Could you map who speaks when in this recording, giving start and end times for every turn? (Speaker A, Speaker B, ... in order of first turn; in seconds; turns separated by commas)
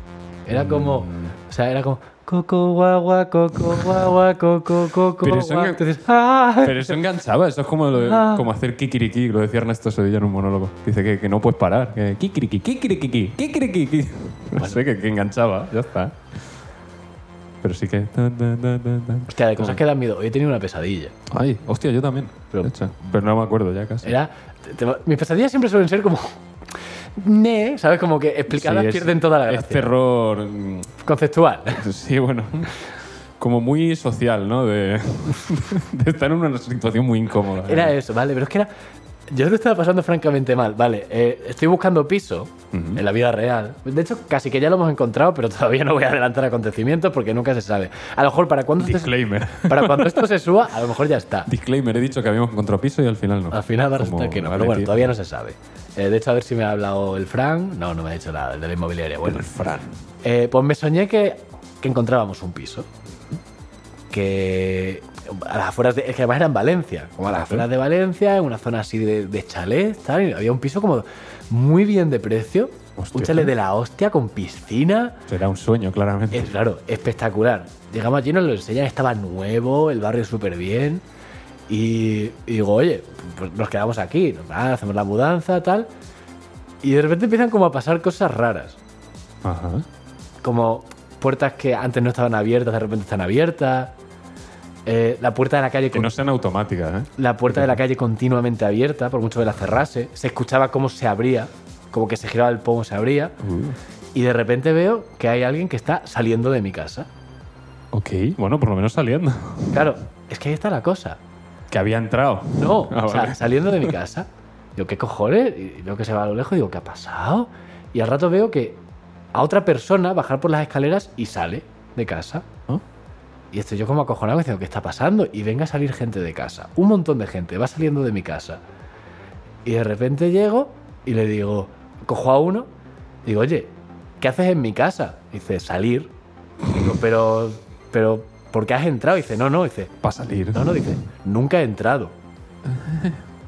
Speaker A: 0.5-7.0, Speaker B: 0.5-1.3, Speaker B: 5.2-5.8, Speaker B: 6.6-16.2, Speaker A: 7.9-8.5, Speaker B: 17.6-19.8, Speaker A: 19.3-21.1, Speaker B: 21.3-24.2, Speaker A: 24.0-26.4, Speaker A: 27.2-29.9, Speaker B: 28.5-30.9, Speaker A: 31.0-31.9, Speaker B: 31.8-32.8, Speaker B: 33.4-38.0, Speaker A: 37.6-38.7, Speaker A: 39.3-51.5, Speaker B: 42.7-43.0, Speaker B: 48.8-50.3, Speaker B: 51.5-55.1, Speaker A: 53.5-59.5, Speaker B: 59.2-60.0, Speaker A: 60.2-62.9, Speaker A: 64.1-75.2, Speaker B: 67.3-67.7, Speaker B: 73.0-73.5, Speaker B: 75.3-76.5, Speaker A: 76.3-81.0, Speaker A: 81.7-85.9, Speaker A: 86.8-88.8, Speaker B: 89.4-89.9, Speaker A: 90.4-93.9, Speaker A: 94.9-96.1, Speaker B: 95.9-97.7, Speaker A: 97.2-103.4, Speaker B: 103.4-103.8, Speaker A: 104.2-107.1, Speaker B: 107.9-109.9, Speaker A: 109.7-111.2, Speaker B: 111.7-114.0, Speaker A: 112.6-118.8, Speaker A: 119.3-122.5, Speaker A: 123.5-128.6, Speaker A: 129.7-132.7, Speaker A: 133.2-136.1, Speaker A: 136.7-139.9, Speaker B: 140.0-140.9, Speaker A: 140.5-142.1, Speaker B: 142.7-143.2